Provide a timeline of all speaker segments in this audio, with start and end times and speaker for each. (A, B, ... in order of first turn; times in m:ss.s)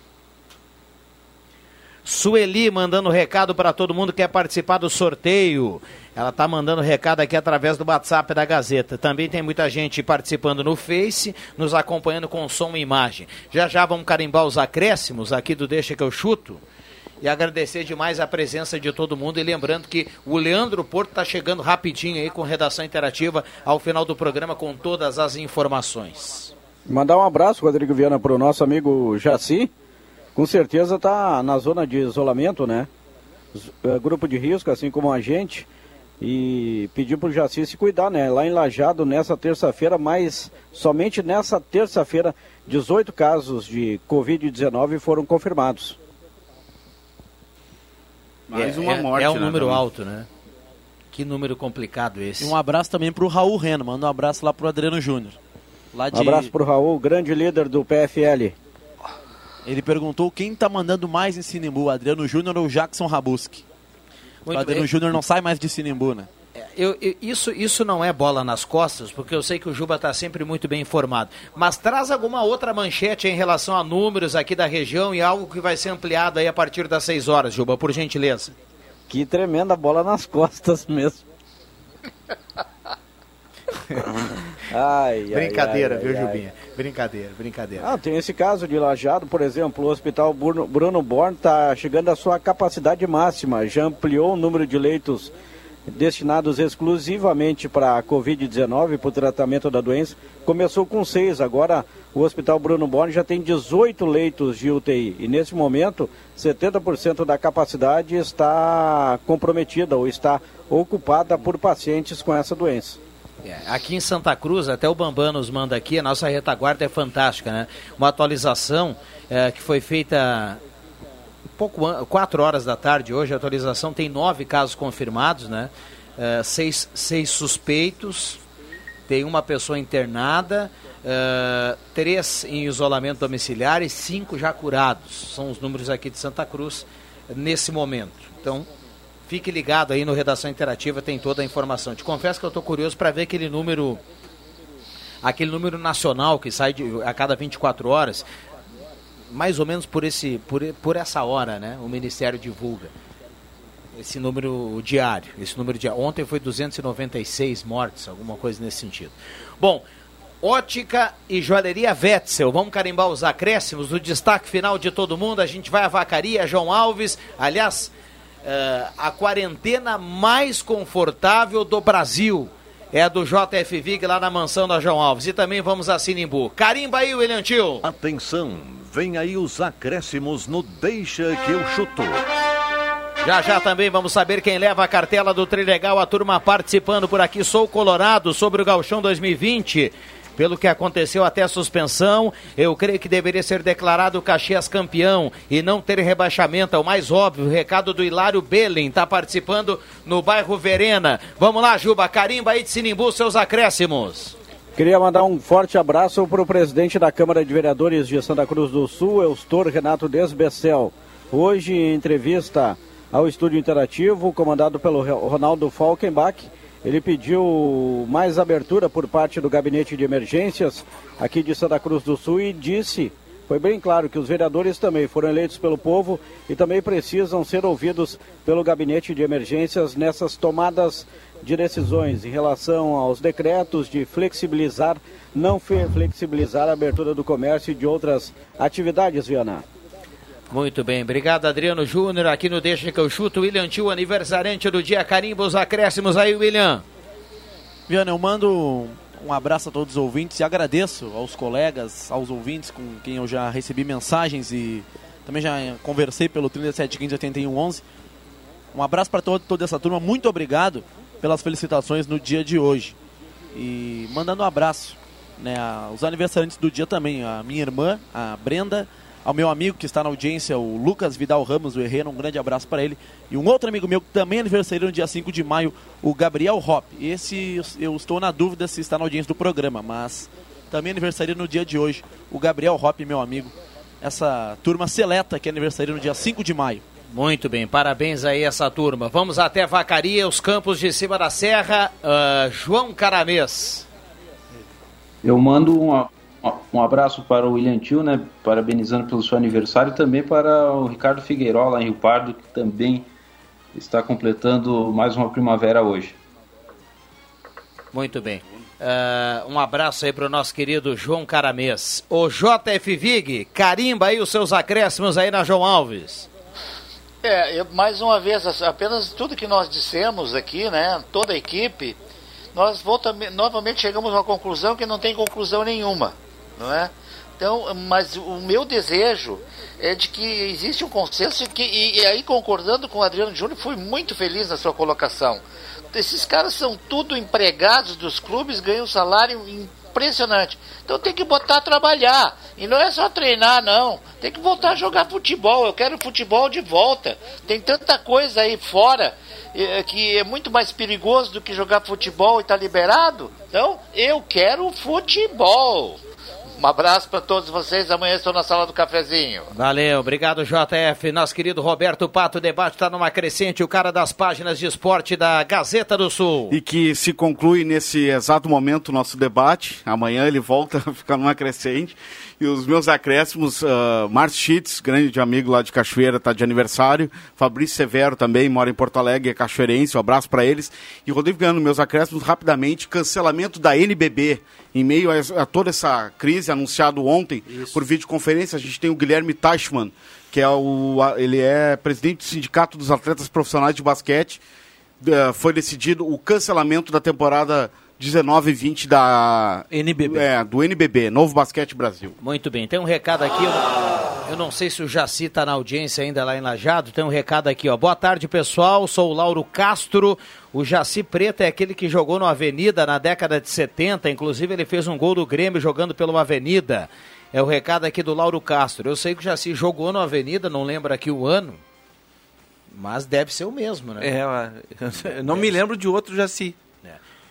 0:02.0-0:16.6 A
0:17.2-0:26.5 A
0:26.9-0:29.7 B
0:30.3-0:32.9 B
0:33.5-0:35.7 B
0:36.2-0:46.0 B
0:48.5-0:49.8 C
0:48.5-0:50.3 A
0:51.1-0:52.5 A
0:52.4-0:55.4 D
0:55.9-0:56.5 D
0:56.1-0:58.5 B
0:59.6-1:03.6 D
1:04.4-1:04.9 A
1:04.5-1:06.3 D
1:06.6-1:18.5 A
1:19.1-1:21.2 B
1:24.1-1:26.4 B
1:25.3-1:27.9 A
1:27.8-1:35.3 B
1:35.9-1:53.0 B
1:53.4-2:00.6 A
2:01.6-2:08.4 A
2:09.1-2:18.7 A
2:19.3-2:24.0 A
2:25.2-2:28.2 A
2:29.3-2:32.9 A
2:33.9-2:39.8 A
2:40.4-2:47.9 A
2:48.4-2:57.8 A
2:57.8-3:02.2 E
3:03.2-3:24.4 A
3:24.8-3:59.6 B
4:00.5-4:06.8 A
4:07.9-4:17.8 D
4:18.7-4:22.9 D
4:23.5-4:46.8 D
4:47.1-4:53.8 A
4:55.2-5:03.1 F
5:03.7-5:06.2 F
5:07.9-5:16.3 A
5:17.2-5:22.0 G
5:22.5-5:56.0 G
5:56.6-5:59.5 G
5:59.5-6:06.6 A
6:06.5-6:34.4 C
6:27.5-6:27.8 H
6:35.0-6:42.2 C
6:39.7-6:40.2 H
6:42.2-7:01.6 A
7:02.7-7:04.1 A
7:04.0-7:06.6 H